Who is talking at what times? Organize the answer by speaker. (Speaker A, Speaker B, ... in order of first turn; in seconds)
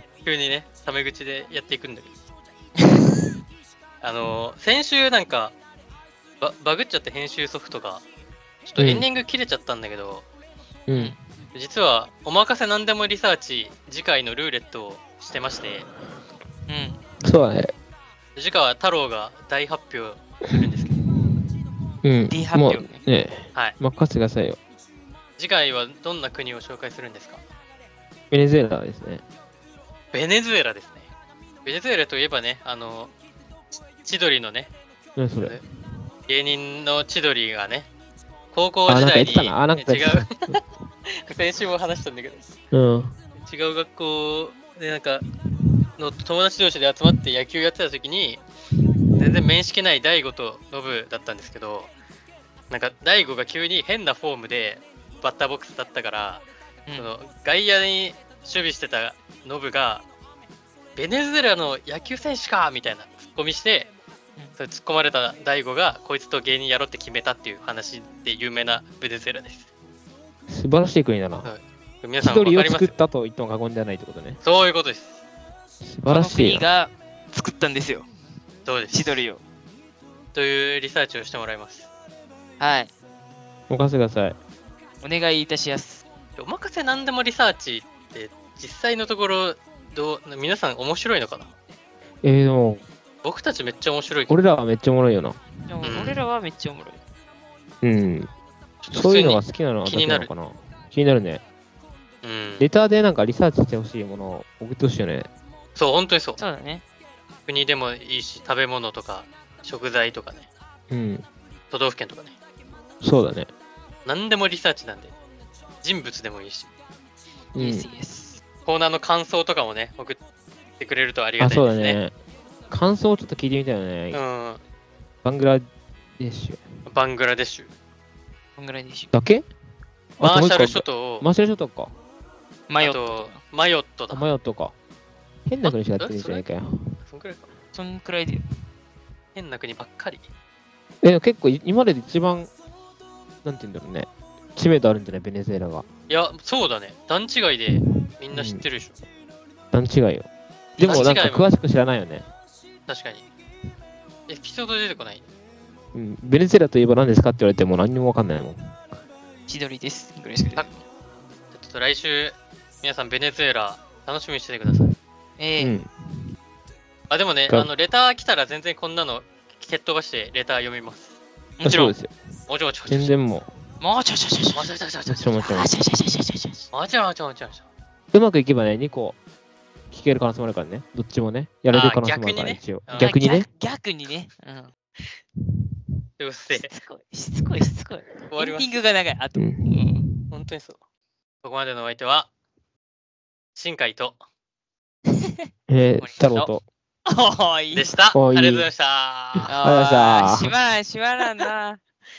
Speaker A: 0.2-2.1, 4.0-5.5, 6.4-8.0, 8.7-10.2, 11.5-15.9, 18.4-21.0, 25.4-27.4, 30.1-31.1, 31.6-33.1, 34.0-34.7, 36.3-37.9, 38.5-40.6, 41.1-42.5, 43.4-45.2, 46.0-48.4, 49.2-51.9, 52.7-60.0, 61.0-63.9, 64.6-69.7, 71.4-72.9, 74.4-75.2, 78.6-79.2, 80.3-81.9, 86.4-91.5, 93.2-94.4, 95.8-96.2, 98.8-100.3, 102.2-102.7, 105.8-106.4, 107.5-110.5, 111.7-112.3, 114.0-115.1, 115.8-116.7, 118.6-120.2, 120.8-122.0, 124.1-124.6, 126.8-127.7, 130.2-131.2, 132.8-134.2, 135.6-136.4, 137.0-137.5, 139.3-140.3, 146.1-149.0, 150.8-151.5, 152.9-153.2, 154.3-155.2, 161.5-164.9, 167.1-171.2, 172.5-173.2, 174.5-175.3, 176.7-177.7, 181.7-183.1, 186.2-186.7, 188.3-188.7, 190.3-190.8, 191.4-192.3, 193.5-194.2, 197.7-199.5
Speaker B: 2.8-3.2, 10.9-11.2, 16.7-17.0, 22.3-23.0, 76.1-78.1, 78.9-79.4, 82.6-82.9, 85.0-86.0, 95.7-97.0, 106.4-106.8, 117.5-118.4, 128.6-129.1, 132.7-133.4, 137.7-138.4, 159.5-160.7, 165.4-165.7, 171.6-171.9, 173.8-174.7, 175.4-176.6, 183.0-184.7, 186.6-190.1, 196.0-196.5, 197.1-197.9, 199.5-201.8
Speaker C: 8.7-9.0, 10.9-11.2, 17.2-17.7, 20.4-20.7, 22.0-24.6, 28.3-29.2, 35.1-35.6, 38.9-40.6, 42.7-43.2, 70.5-71.5, 72.2-74.4, 75.8-76.6, 83.7-84.3, 92.2-92.8, 94.3-95.8, 97.8-98.3, 98.9-101.4, 102.6-105.3, 110.9-111.2, 113.0-113.5, 117.5-117.9, 121.4-122.1, 122.7-124.2, 125.2-126.6, 129.1-129.4, 130.2-131.9, 134.1-134.7, 135.5-137.0, 141.0-142.5, 143.4-145.8, 147.7-148.6, 149.7-152.2, 155.9-158.7, 165.6-165.9, 171.6-172.1, 172.9-173.5, 175.1-175.7, 178.1-179.2, 179.9-183.5, 189.3-190.3, 195.7-196.6, 198.1-198.7, 199.5-200.5